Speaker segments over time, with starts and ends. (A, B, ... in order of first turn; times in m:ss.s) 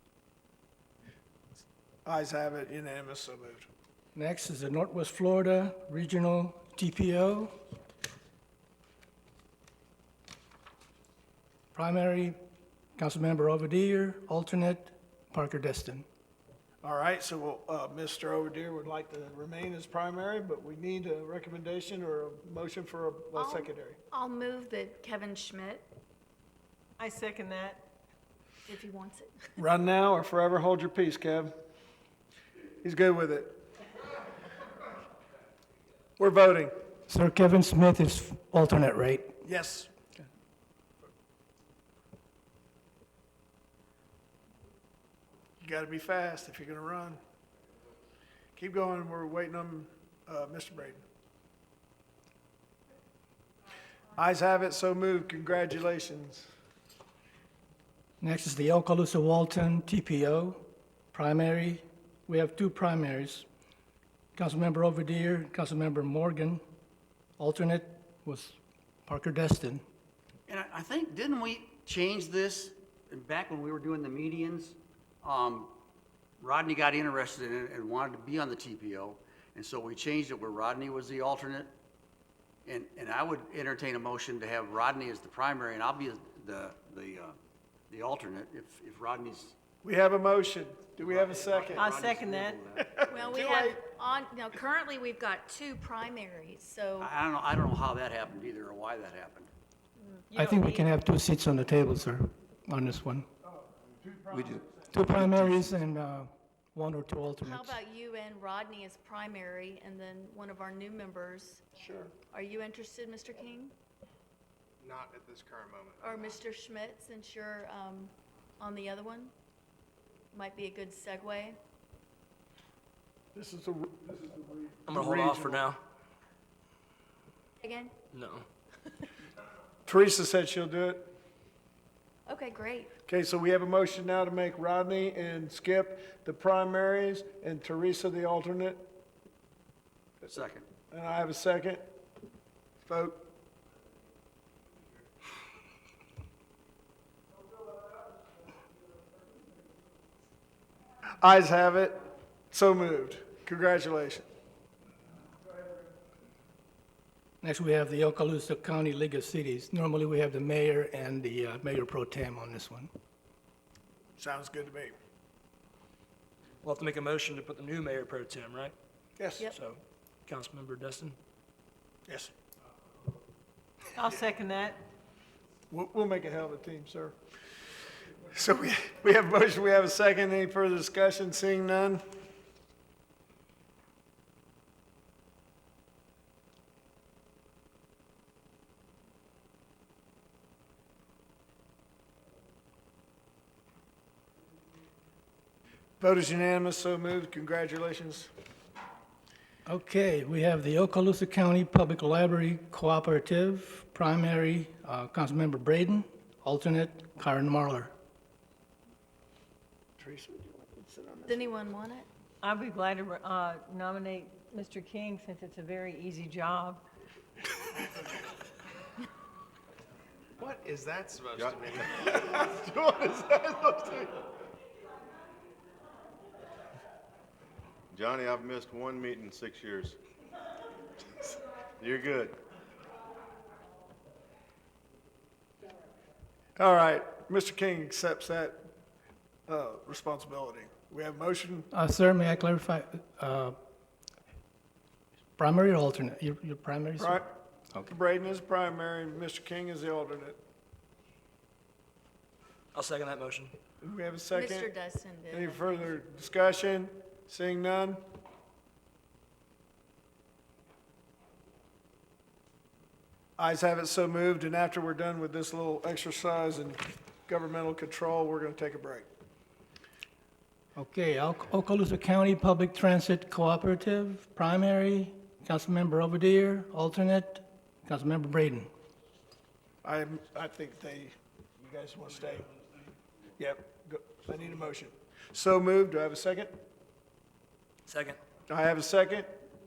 0:02.0-0:03.7 A
0:04.2-0:07.5 B
0:11.7-0:12.4 B
0:13.0-0:16.0 B
0:16.8-0:24.0 A
0:23.4-0:25.9 C
0:27.0-0:27.8 D
0:28.7-0:29.6 C
0:29.6-0:31.5 A
0:32.8-0:33.6 A
0:36.2-0:36.7 A
0:37.1-0:39.3 B
0:39.4-0:39.9 A
0:45.6-0:47.2 A
0:48.6-0:51.0 A
0:54.2-0:56.5 A
0:58.2-1:00.6 B
1:01.1-1:03.5 B
1:04.4-1:06.6 B
1:07.4-1:09.8 B
1:10.5-1:15.7 E
1:16.4-1:21.7 E
1:22.6-1:27.4 E
1:27.9-1:29.6 E
1:29.8-1:31.9 A
1:31.0-1:33.5 E
1:31.8-1:32.6 D
1:33.0-1:33.8 A
1:33.1-1:37.1 C
1:37.0-1:39.5 E
1:40.3-1:40.9 D
1:40.4-1:43.3 B
1:43.6-1:44.7 A
1:44.9-1:47.8 B
1:47.4-1:51.6 C
1:51.8-1:52.1 A
1:52.3-1:53.7 C
1:54.8-1:56.3 F
1:56.0-1:59.3 C
2:00.3-2:01.6 C
2:03.3-2:05.7 A
2:04.9-2:05.8 G
2:07.6-2:07.9 C
2:08.1-2:08.5 G
2:09.9-2:11.1 A
2:12.3-2:12.9 C
2:13.1-2:18.8 A
2:20.3-2:20.7 E
2:20.9-2:21.8 A
2:22.8-2:23.3 A
2:31.2-2:32.0 A
2:32.5-2:34.3 A
2:37.4-2:42.9 B
2:44.2-2:45.0 A
2:46.6-2:48.8 G
2:49.2-2:49.4 A
2:49.5-2:51.2 G
2:54.0-2:54.8 D
2:55.7-2:57.2 A
2:58.3-3:02.0 A
3:16.0-3:18.3 A
3:19.7-3:27.9 B
3:30.0-3:31.5 A
3:31.3-3:32.1 C
3:32.4-3:36.8 D
3:40.4-3:44.0 F
3:41.3-3:44.1 H
3:47.9-3:50.0 H
3:51.8-3:52.4 H
3:56.6-3:58.6 A
3:59.5-4:01.7 A
4:01.7-4:03.6 B
4:05.4-4:07.2 B
4:07.0-4:07.3 A
4:07.8-4:10.4 A
4:12.8-4:13.5 G
4:13.8-4:14.7 A
4:14.3-4:15.7 C
4:15.3-4:18.0 A
4:23.4-4:29.1 A
4:30.8-4:38.7 B
4:39.8-4:42.5 A
4:43.4-4:46.5 A
4:47.9-4:48.2 G
4:48.5-4:49.3 A